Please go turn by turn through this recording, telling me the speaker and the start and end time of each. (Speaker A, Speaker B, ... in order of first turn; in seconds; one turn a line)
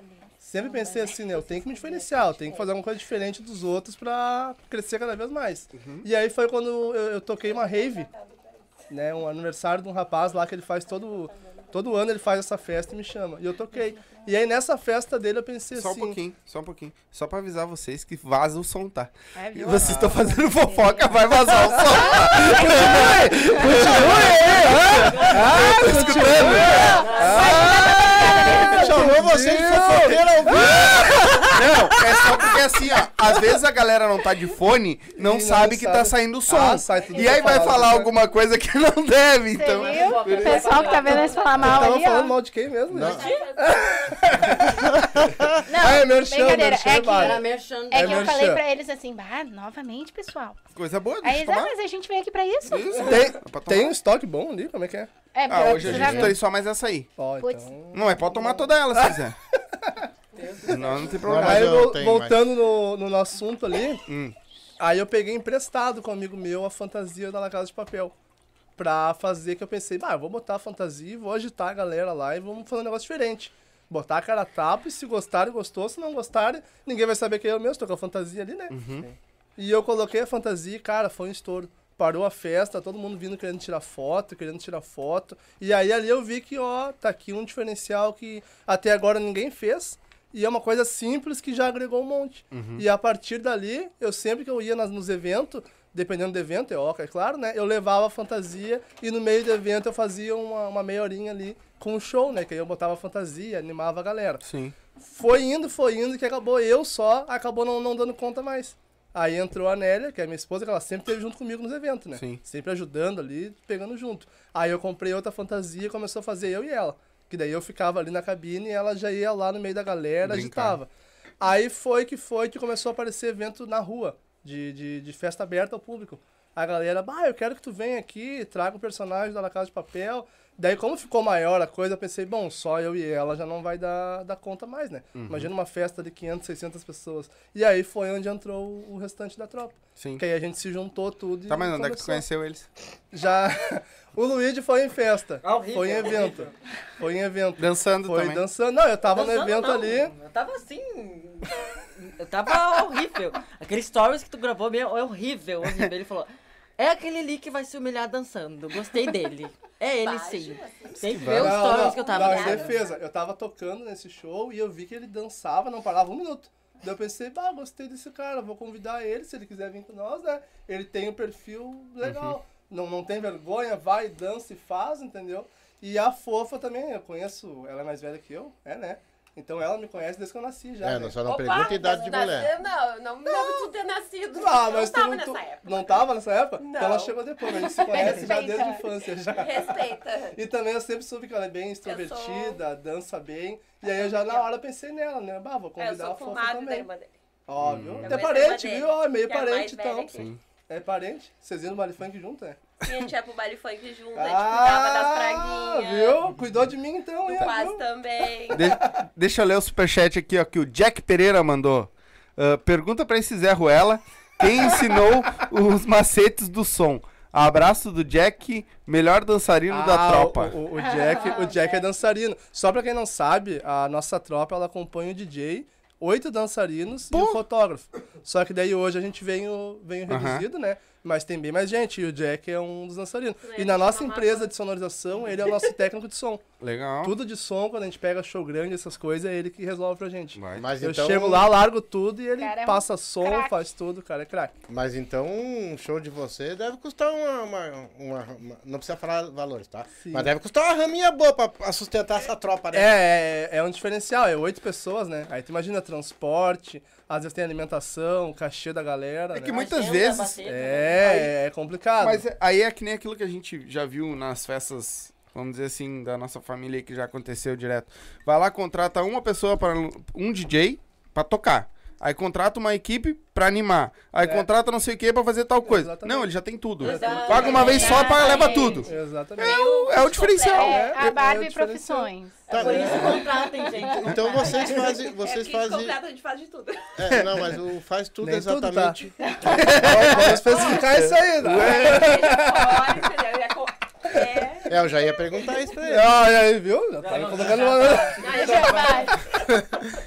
Speaker A: 0.4-8.1
Speaker B: 0.6-1.5
Speaker B: 2.1-2.4
Speaker C: 5.7-6.1
Speaker D: 7.5-8.7
Speaker A: 8.9-16.2
Speaker D: 11.3-11.8
Speaker C: 15.7-27.5
Speaker B: 19.4-23.7
Speaker A: 22.1-31.5
Speaker E: 25.0-27.8
Speaker B: 26.6-29.1
Speaker F: 28.5-31.5
Speaker C: 30.5-40.9
Speaker A: 32.2-32.5
Speaker A: 35.2-38.1
Speaker D: 36.9-37.7
Speaker B: 39.5-42.4
Speaker E: 39.8-41.8
Speaker D: 40.5-41.6
Speaker A: 41.5-48.6
Speaker F: 42.9-43.2
Speaker D: 43.0-44.1
Speaker E: 43.1-43.6
Speaker F: 44.7-45.6
Speaker B: 45.6-50.6
Speaker E: 47.1-48.5
Speaker C: 50.8-51.7
Speaker B: 51.2-53.1
Speaker C: 52.7-53.9
Speaker A: 53.0-55.1
Speaker B: 55.3-56.4
Speaker C: 55.5-57.1
Speaker F: 55.7-56.4
Speaker A: 57.2-59.2
Speaker B: 57.4-57.7
Speaker C: 57.9-59.4
Speaker A: 59.7-60.1
Speaker E: 60.4-61.2
Speaker C: 60.7-61.8
Speaker F: 61.2-62.5
Speaker A: 61.3-64.0
Speaker C: 64.1-64.3
Speaker A: 64.8-68.1
Speaker A: 68.8-104.4
Speaker C: 78.7-79.1
Speaker C: 92.5-92.8
Speaker C: 104.4-104.8
Speaker A: 105.0-120.9
Speaker C: 112.2-112.4
Speaker C: 120.2-120.8
Speaker A: 121.4-142.2
Speaker C: 135.2-135.5
Speaker C: 140.0-140.2
Speaker C: 141.5-142.7
Speaker A: 143.1-150.1
Speaker E: 145.4-146.5
Speaker C: 147.6-148.4
Speaker E: 149.0-162.8
Speaker D: 160.0-163.0
Speaker C: 161.1-161.7
Speaker A: 161.3-181.2
Speaker C: 172.0-172.3
Speaker F: 180.8-182.5
Speaker D: 181.2-186.0
Speaker A: 183.3-183.7
Speaker A: 184.4-196.9
Speaker D: 186.6-188.7
Speaker B: 187.8-188.8
Speaker D: 189.3-190.4
Speaker D: 191.9-192.6
Speaker D: 193.8-194.5
Speaker D: 195.8-197.1
Speaker A: 197.5-202.6
Speaker C: 197.6-198.2
Speaker D: 198.0-200.3
Speaker C: 200.1-200.4
Speaker D: 202.8-206.3
Speaker A: 204.2-207.8
Speaker D: 207.3-208.7
Speaker C: 208.5-220.6
Speaker A: 219.7-236.4
Speaker B: 220.8-221.8
Speaker C: 227.1-227.4
Speaker C: 230.1-230.5
Speaker D: 233.4-234.5
Speaker D: 235.4-235.7
Speaker C: 236.6-237.2
Speaker A: 237.0-244.5
Speaker C: 240.3-240.6
Speaker F: 240.6-241.5
Speaker B: 242.4-243.6
Speaker F: 244.7-253.0
Speaker A: 250.0-250.3
Speaker A: 252.7-259.6
Speaker C: 259.3-260.4
Speaker E: 259.5-261.3
Speaker A: 260.4-262.2
Speaker C: 262.0-281.1
Speaker A: 275.6-276.3
Speaker E: 276.8-278.9
Speaker A: 276.8-277.9
Speaker D: 277.4-281.0
Speaker B: 277.5-278.9
Speaker A: 278.8-279.6
Speaker B: 280.5-282.5
Speaker A: 280.6-282.1
Speaker E: 282.5-284.9
Speaker F: 282.5-283.2
Speaker F: 283.9-286.0
Speaker D: 284.5-287.0
Speaker F: 287.0-290.3
Speaker A: 288.2-289.0
Speaker C: 289.5-292.2
Speaker A: 289.6-292.9
Speaker D: 290.5-290.9
Speaker D: 291.6-295.0
Speaker A: 294.1-294.6
Speaker F: 294.7-296.1
Speaker A: 295.9-299.1
Speaker E: 297.0-298.8
Speaker D: 298.1-299.3
Speaker B: 298.4-299.2
Speaker F: 299.4-299.8